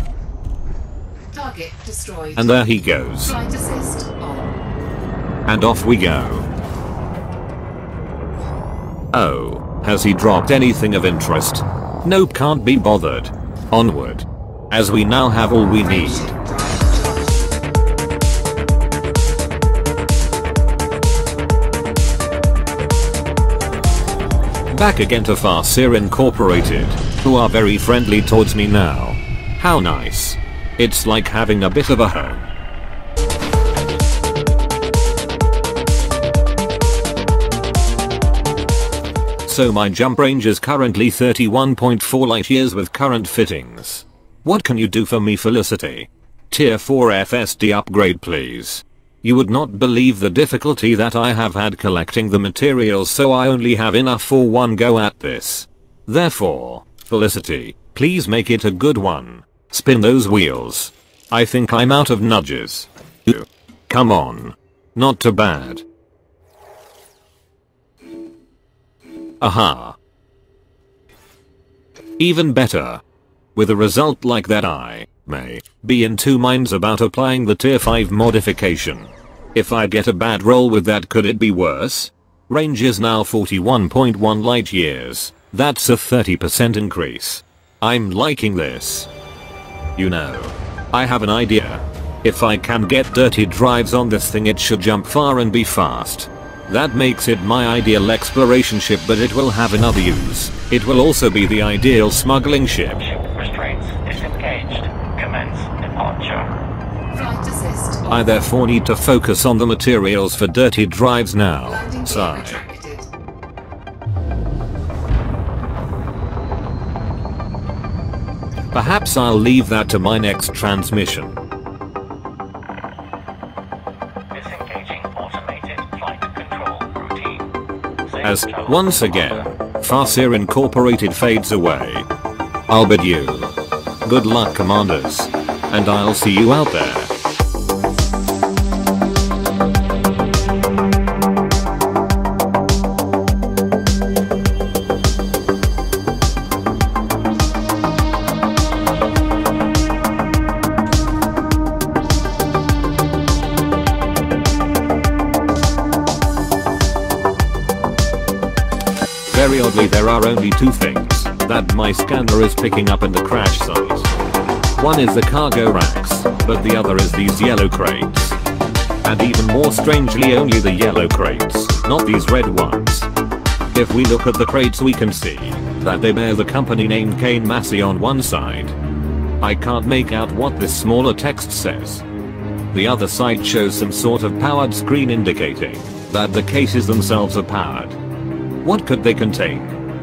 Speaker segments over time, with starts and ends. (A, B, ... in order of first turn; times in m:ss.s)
0:01.3-0:02.5 A
0:02.4-0:03.4 B
0:03.2-0:04.5 A
0:05.5-0:06.5 B
0:09.1-0:16.4 B
0:15.8-0:17.5 A
0:24.7-0:32.5 B
0:39.5-1:05.8 B
1:09.4-1:10.0 B
1:12.2-1:13.0 B
1:13.6-1:29.1 B
1:30.0-1:43.0 B
1:43.0-1:46.5 C
1:47.1-1:48.2 A
1:48.1-1:52.6 B
1:51.7-1:53.1 A
1:58.7-2:01.4 B
2:04.3-2:07.5 C
2:08.1-2:09.5 C
2:08.2-2:12.1 B
2:12.7-2:17.1 B
2:39.3-2:44.1 B
2:44.8-2:48.4 B
2:49.0-2:53.1 B
2:53.7-2:58.8 B
2:59.4-3:02.0 B
3:02.7-3:08.0 B
3:08.6-3:09.8 B